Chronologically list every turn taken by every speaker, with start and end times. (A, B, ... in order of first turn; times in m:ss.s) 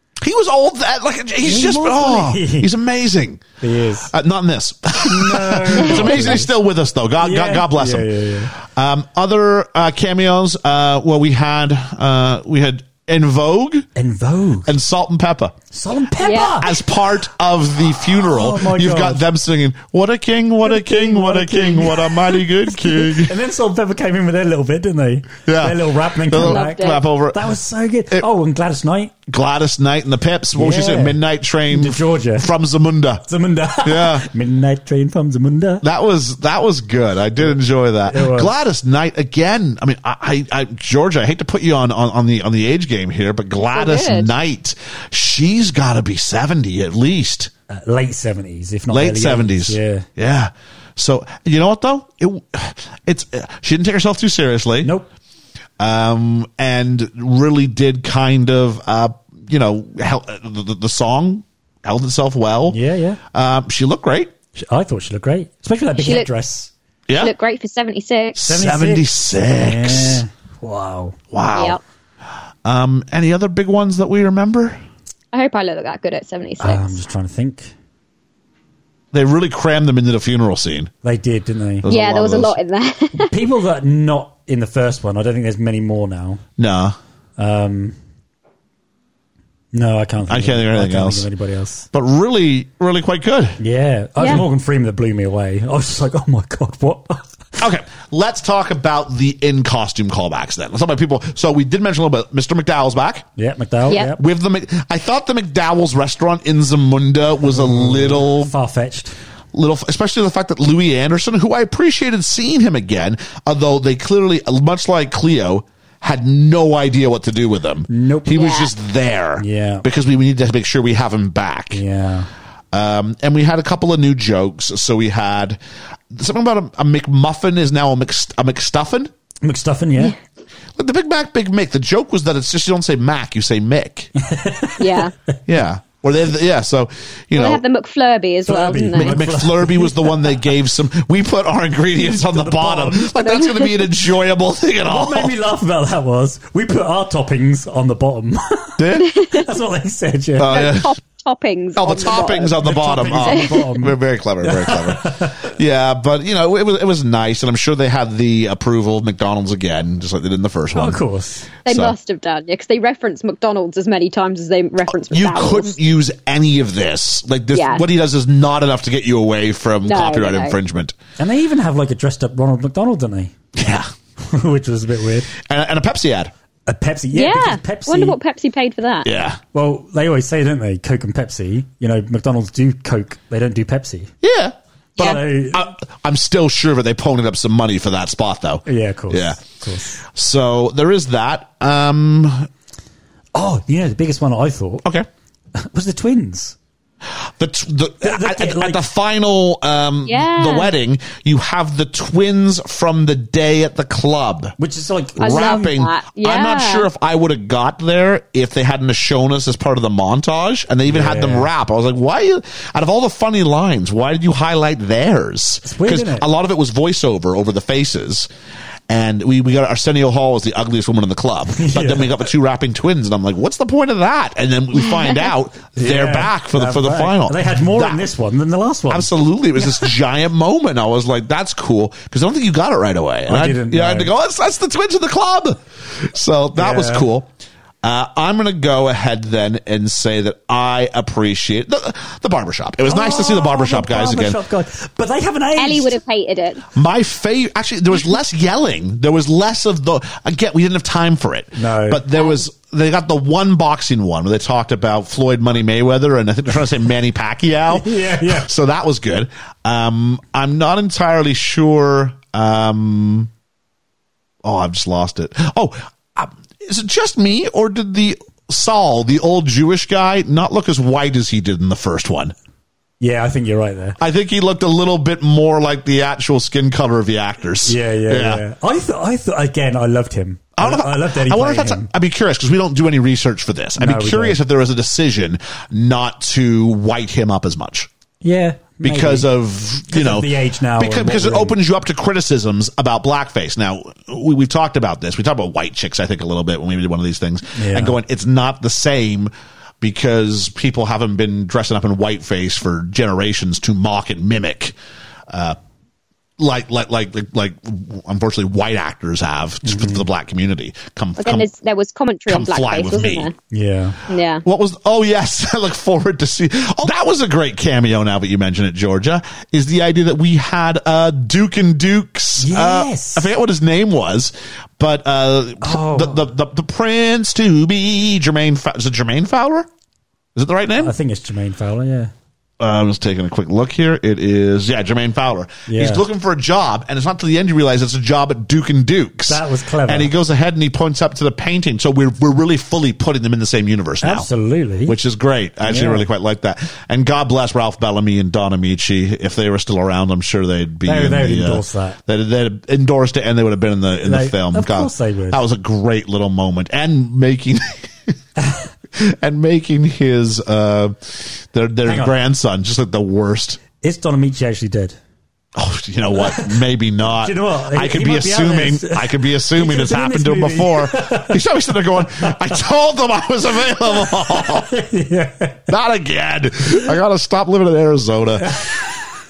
0:00.2-0:03.4 A
0:01.4-0:02.7 B
0:03.6-0:04.1 B
0:04.1-0:13.9 A
0:05.0-0:06.5 B
0:07.2-0:08.5 B
0:14.0-0:14.8 B
0:14.7-0:15.6 A
0:15.7-0:16.8 B
0:16.2-0:16.6 C
0:16.6-0:23.3 A
0:18.2-0:19.3 B
0:20.6-0:29.1 B
0:25.5-0:27.5 A
0:26.3-0:27.0 C
0:29.3-0:33.2 A
0:30.6-0:32.5 B
0:33.2-0:35.8 B
0:33.8-0:34.3 A
0:35.8-0:47.5 A
0:37.4-0:38.5 B
0:43.6-0:44.3 C
0:47.7-0:50.1 B
0:48.9-0:54.9 A
0:54.8-0:55.1 B
0:55.8-1:02.8 A
1:02.7-1:03.2 B
1:03.3-1:04.3 A
1:04.6-1:06.7 B
1:06.0-1:06.3 C
1:07.1-1:07.3 A
1:07.2-1:08.4 C
1:08.4-1:10.2 A
1:08.4-1:11.2 B
1:11.3-1:11.8 A
1:11.5-1:11.8 C
1:12.6-1:14.8 A
1:15.3-1:17.0 C
1:16.6-1:17.7 B
1:19.1-1:20.9 A
1:21.0-1:21.9 B
1:21.8-1:22.6 A
1:21.9-1:23.3 C
1:23.2-1:26.4 B
1:26.6-1:27.0 A
1:27.4-1:28.0 B
1:29.7-1:31.9 B
1:30.3-1:31.3 A
1:31.9-1:33.6 A
1:33.6-1:37.4 B
1:34.2-1:34.4 C
1:37.6-1:43.3 A
1:43.4-1:44.2 B
1:44.0-1:48.5 A
1:47.4-1:49.2 B
1:49.5-2:01.8 A
1:57.9-1:58.4 B
1:58.3-1:58.7 C
1:59.4-1:59.8 B
2:01.7-2:02.3 B
2:02.7-2:05.6 A
2:06.1-2:09.1 A
2:09.4-2:10.2 B
2:10.8-2:14.1 A
2:14.2-2:15.1 B
2:14.8-2:15.1 C
2:15.5-2:17.6 A
2:17.3-2:19.2 C
2:18.5-2:20.4 B
2:18.9-2:25.3 A
2:22.0-2:23.2 B
2:23.2-2:23.9 C
2:24.9-2:30.7 B
2:28.8-2:29.1 A
2:29.1-2:29.4 C
2:30.4-2:30.9 A
2:30.5-2:32.6 C
2:31.8-2:41.0 A
2:32.6-2:35.5 B
2:33.2-2:33.6 C
2:40.8-2:41.5 B
2:41.7-2:42.0 A
2:41.7-2:45.8 C
2:44.9-2:51.0 A
2:47.5-2:47.8 C
2:49.8-2:50.6 C
2:51.2-2:53.3 B
2:53.6-2:53.9 A
2:54.2-2:55.3 B
2:55.4-2:56.3 A
2:56.7-2:58.2 B
2:57.1-2:59.1 C
2:59.0-2:59.4 A
2:59.5-3:04.1 B
3:04.2-3:09.4 A
3:05.0-3:05.7 B
3:08.7-3:10.0 B
3:10.0-3:12.5 A
3:13.4-3:14.8 B
3:15.6-3:16.6 B
3:17.2-3:24.6 A
3:18.0-3:18.8 B
3:20.1-3:20.7 C
3:24.6-3:25.7 B
3:25.2-3:38.3 A
3:25.2-3:26.9 C
3:30.9-3:31.5 B
3:35.6-3:36.3 B
3:38.9-3:48.0 A
3:41.5-3:42.2 B
3:45.8-3:49.1 B
3:48.9-3:57.3 A
3:53.3-3:54.1 B
3:56.6-3:57.1 B
3:57.8-4:04.4 A
4:02.9-4:06.0 B
4:05.6-4:06.6 C
4:06.7-4:23.3 A
4:11.6-4:12.0 B
4:17.7-4:18.5 B
4:24.4-4:32.3 A
4:33.0-4:34.0 B
4:34.0-4:38.4 A
4:37.6-4:41.9 B
4:40.6-4:47.9 A
4:43.8-4:44.4 B
4:48.2-4:49.3 B
4:48.8-4:59.3 A
4:49.8-4:51.6 B
4:57.6-4:58.0 B
4:59.8-5:04.8 A
5:05.3-5:05.6 A
5:06.4-5:11.5 A
5:09.6-5:10.1 B
5:11.2-5:13.3 C
5:12.3-5:13.3 A
5:13.5-5:14.0 B
5:14.1-5:14.4 C
5:14.4-5:29.7 A
5:22.4-5:23.3 B
5:25.6-5:26.3 B
5:30.4-5:31.0 A
5:30.8-5:32.1 B
5:32.6-5:44.3 A
5:35.7-5:36.0 B
5:39.3-5:40.1 B
5:44.0-5:45.0 B
5:44.9-5:58.1 A
5:45.6-5:46.1 B
5:50.8-5:52.0 B
5:54.0-5:55.4 B
5:58.4-5:58.7 B
5:59.0-6:03.6 A
6:01.9-6:02.2 B
6:03.8-6:05.0 B
6:05.6-6:14.7 A
6:06.1-6:11.4 B
6:12.0-6:12.5 B
6:13.9-6:15.7 B
6:15.7-6:18.7 A
6:18.5-6:18.8 B